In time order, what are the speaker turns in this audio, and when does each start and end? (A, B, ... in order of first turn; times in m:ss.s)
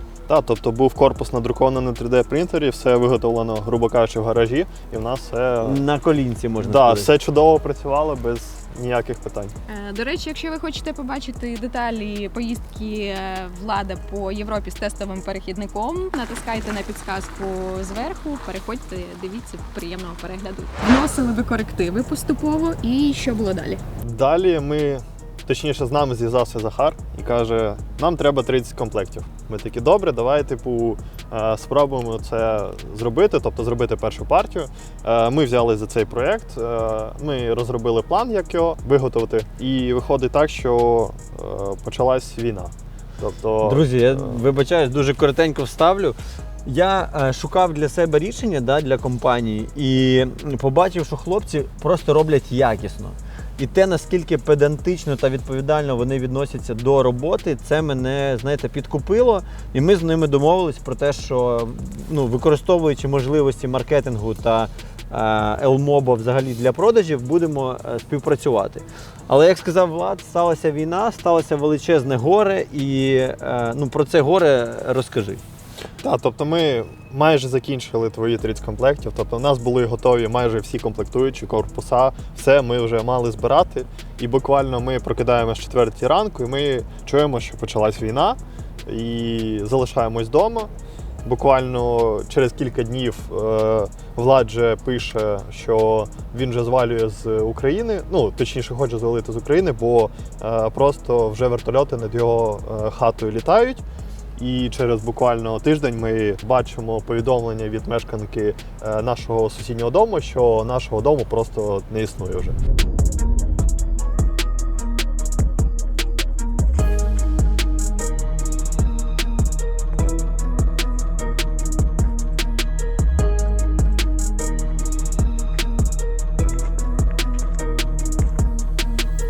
0:00.3-0:05.8 A
0:05.6-0:07.1 B
0:06.6-0:09.5 A
0:09.7-0:23.8 C
0:24.0-0:44.4 A
0:43.6-1:15.4 B
1:16.0-1:30.7 A
1:31.2-1:43.8 A
1:44.4-1:52.6 A